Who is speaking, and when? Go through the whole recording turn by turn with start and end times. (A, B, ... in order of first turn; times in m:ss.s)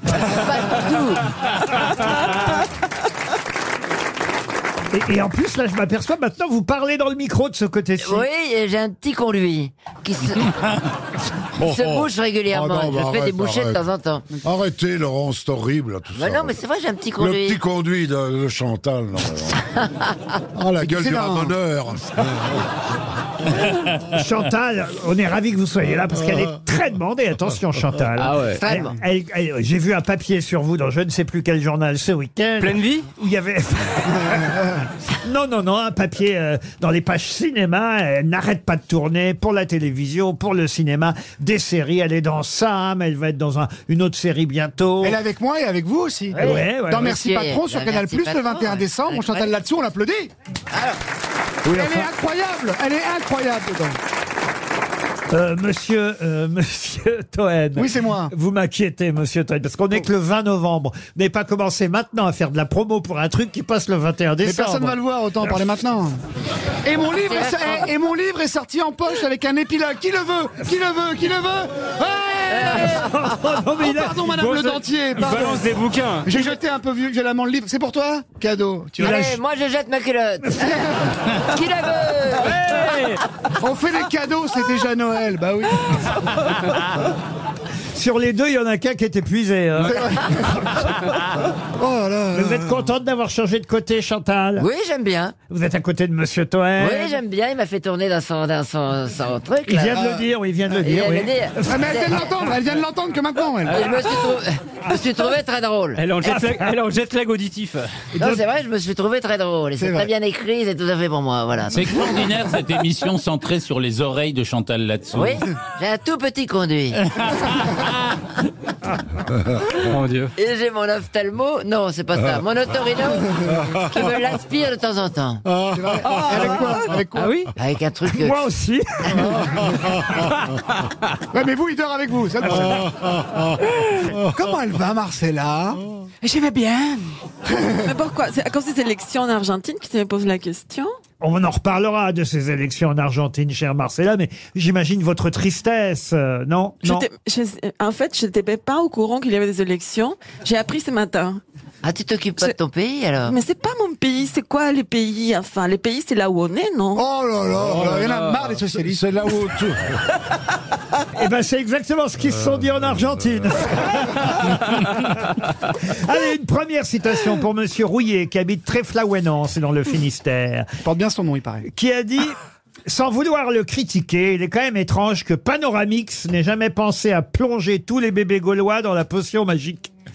0:00.2-0:01.2 A
0:04.9-0:08.3 B
0:08.0-0:10.8 A
0:11.6-0:14.3 A
0:11.6-0:16.6 C
0:16.1-0:17.6 A
0:17.2-0:19.8 C
0:20.5-0:22.6 C
0:20.8-0:21.6 D
0:24.0-0:45.2 B
0:28.3-0:28.5 E
0:28.5-0:28.9 A
0:32.6-0:33.1 E
0:45.0-0:50.3 D
0:46.3-0:47.1 B
0:46.4-0:49.5 A
0:50.7-0:51.0 A
0:51.6-0:54.0 D
0:51.7-0:52.1 B
0:55.3-1:05.6 B
0:57.8-0:58.3 D
1:04.4-1:06.2 D
1:06.8-1:12.9 D
1:07.3-1:07.7 A
1:12.6-1:15.6 B
1:12.8-1:13.0 A
1:13.8-1:19.2 D
1:15.1-1:16.5 E
1:19.0-1:19.4 B
1:19.0-1:22.6 A
1:20.4-1:20.8 B
1:22.7-1:22.9 B
1:22.7-1:23.1 E
1:23.6-1:26.2 D
1:27.9-1:30.0 B
1:29.9-1:30.4 D
1:31.8-1:32.9 D
1:32.3-1:34.7 B
1:34.6-1:35.3 A
1:35.5-1:37.2 B
1:36.8-1:40.0 A
1:39.6-1:41.7 B
1:39.9-1:40.2 D
1:40.8-1:42.4 A
1:41.6-1:44.3 D
1:43.7-1:46.0 A
1:45.9-1:48.0 E
1:48.2-1:48.4 B
1:48.2-1:51.9 A
1:49.8-1:50.1 D
1:51.7-1:55.4 F
1:55.1-1:57.0 A
1:57.2-1:57.9 F
1:59.8-2:00.3 E
2:00.4-2:05.4 A
2:05.7-2:07.4 D
2:06.1-2:07.5 E
2:07.6-2:08.4 A
2:08.0-2:10.3 B
2:11.3-2:13.2 D
2:14.1-2:15.8 D
2:16.2-2:17.0 E
2:17.4-2:17.8 D
2:17.8-2:20.9 G
2:21.2-2:27.0 B
2:26.8-2:31.4 G
2:31.8-2:33.4 A
2:33.3-2:37.0 G
2:37.0-2:39.1 D
2:37.6-2:40.0 C
2:41.2-2:50.7 B
2:42.7-2:43.1 C
2:50.8-2:51.6 D
2:51.7-2:59.9 B